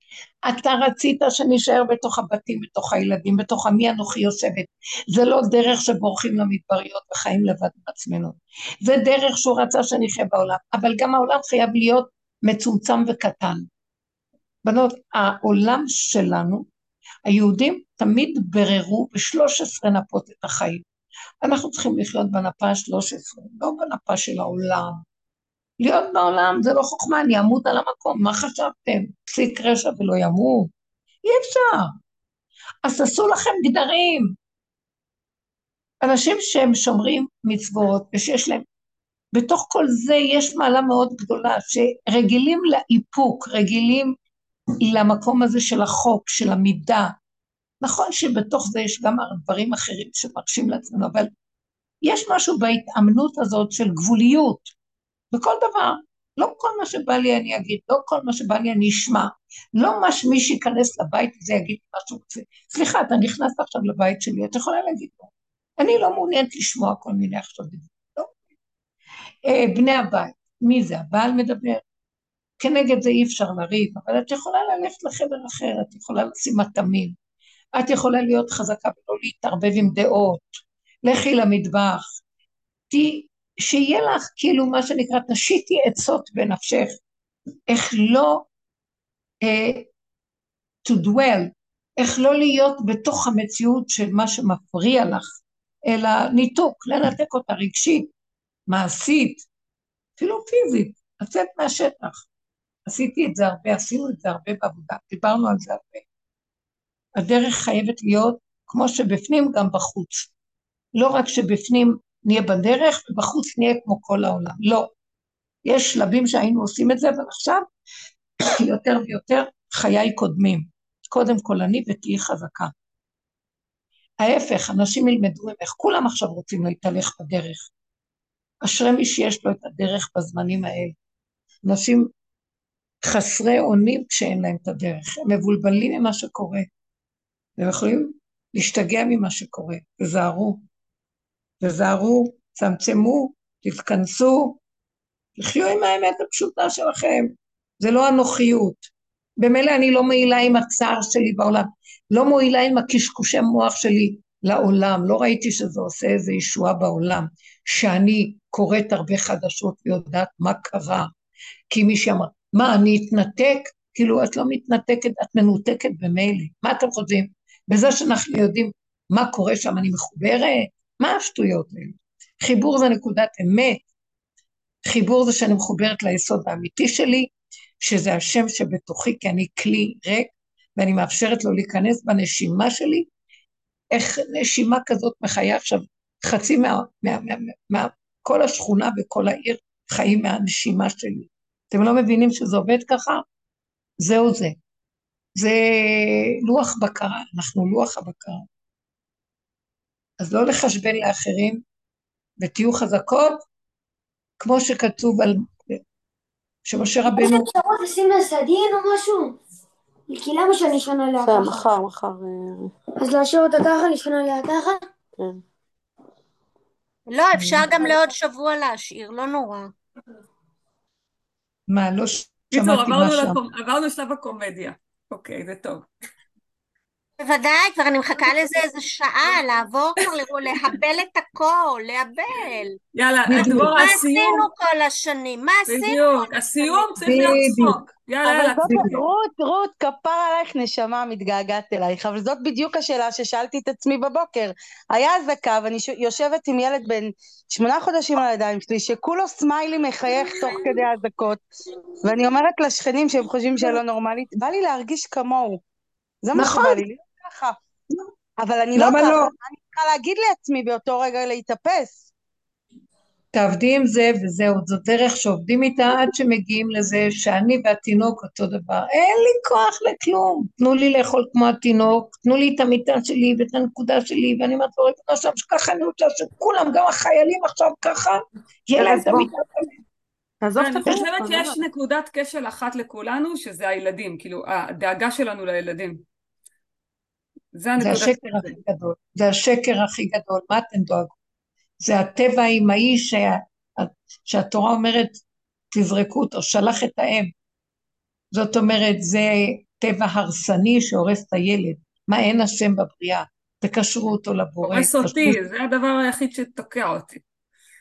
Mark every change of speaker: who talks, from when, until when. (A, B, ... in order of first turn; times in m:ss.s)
0:00.5-0:13.7 A
0:14.6-0:16.6 A
0:17.3-0:20.8 A
0:21.4-0:25.0 A
0:25.8-0:30.7 A
0:31.3-0:32.0 A
0:32.8-0:34.4 A
0:36.0-0:38.6 A
0:39.3-0:44.1 A
0:44.8-0:47.1 A
0:47.8-0:51.3 A
0:52.0-0:54.7 A
0:55.3-1:08.4 A
1:09.5-1:11.8 A
1:12.6-1:17.2 A
1:17.8-1:22.0 A
1:22.9-1:27.0 A
1:27.7-1:28.4 A
1:29.4-1:29.9 A
1:30.8-1:35.3 A
1:35.9-1:38.1 A
1:38.7-1:39.5 A
1:40.2-1:42.2 A
1:42.9-1:46.0 A
1:47.2-1:50.3 A
1:51.0-1:54.9 A
1:55.7-1:57.6 A
1:58.6-2:02.7 A
2:04.2-2:07.7 A
2:08.6-2:11.0 A
2:11.6-2:12.1 A
2:13.0-2:16.7 A
2:17.6-2:20.6 A
2:21.6-2:24.6 A
2:25.4-2:41.1 A
2:41.7-2:53.8 A
2:54.9-3:03.1 A
3:03.9-3:13.2 A
3:14.0-3:14.6 A
3:15.4-3:18.4 A
3:20.2-3:21.6 A
3:22.4-3:23.4 A
3:24.4-3:25.8 A
3:26.7-3:27.5 A
3:27.1-3:29.4 B
3:30.1-3:31.6 B
3:31.2-3:32.7 C
3:33.0-3:34.8 B
3:35.2-3:35.4 C
3:37.1-3:39.7 D
3:41.7-3:43.4 A
3:42.5-3:45.9 E
3:47.2-3:52.7 D
3:48.3-3:48.5 E
3:52.9-3:54.5 E
3:53.3-3:53.9 A
3:53.4-3:57.5 D
3:55.7-3:59.0 E
3:57.0-3:57.8 A
3:58.2-4:11.4 C
3:58.6-3:59.0 A
4:12.0-4:15.6 C
4:16.2-4:17.6 C
4:16.4-4:16.8 A
4:18.4-4:22.0 C
4:18.8-4:19.3 A
4:23.3-4:39.7 A
4:38.8-4:39.3 C
4:40.4-4:41.6 C
4:40.6-4:46.0 E
4:47.5-4:48.6 E
4:47.8-4:51.2 A
4:51.8-4:55.2 A
4:55.7-4:57.3 A
4:58.3-5:05.4 A
5:04.7-5:07.2 E